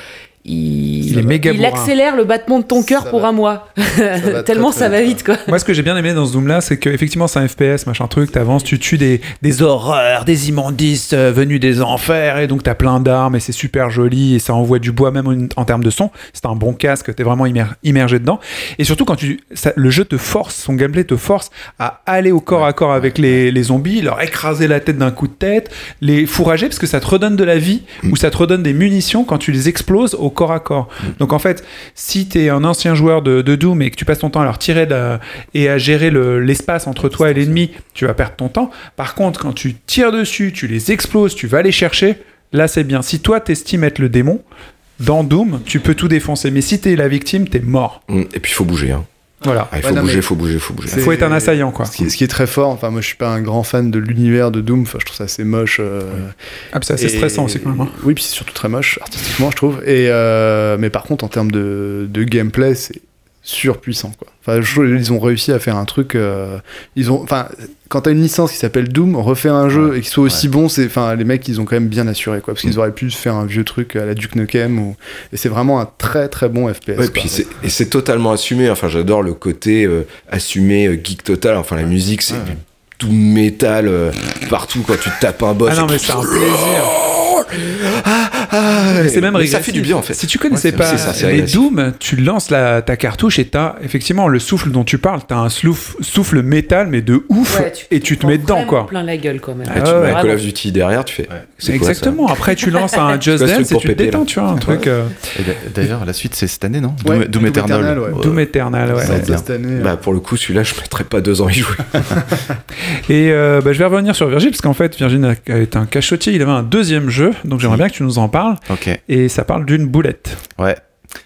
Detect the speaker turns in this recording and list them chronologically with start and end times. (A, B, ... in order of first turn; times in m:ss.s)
0:00.4-0:05.5 A
0:01.0-0:01.9 B
0:02.9-0:03.3 C
0:04.1-0:05.2 C
0:05.5-0:44.4 B
0:22.6-0:23.2 D
0:45.0-0:48.0 B
0:48.1-0:49.0 E
0:49.4-0:49.7 B
0:49.7-0:51.2 E
0:49.8-0:50.3 C
0:50.8-0:56.3 C
0:50.9-0:51.9 B
0:56.7-0:58.0 B
0:57.0-1:17.4 C
1:09.7-1:10.4 D
1:17.0-1:31.7 E
1:22.3-1:22.6 D
1:25.6-1:26.9 B
1:28.9-1:38.9 B
1:30.5-1:31.2 D
1:37.5-1:40.4 A
1:39.6-1:40.2 B
1:39.7-1:42.2 E
1:41.6-1:45.3 B
1:42.7-1:43.0 A
1:43.3-1:44.9 E
1:45.3-1:48.4 D
1:47.0-1:48.2 C
1:48.1-1:49.2 B
1:48.9-1:49.9 C
1:49.0-1:49.4 D
1:49.7-1:52.3 E
1:53.1-2:00.4 B
1:58.7-1:59.0 D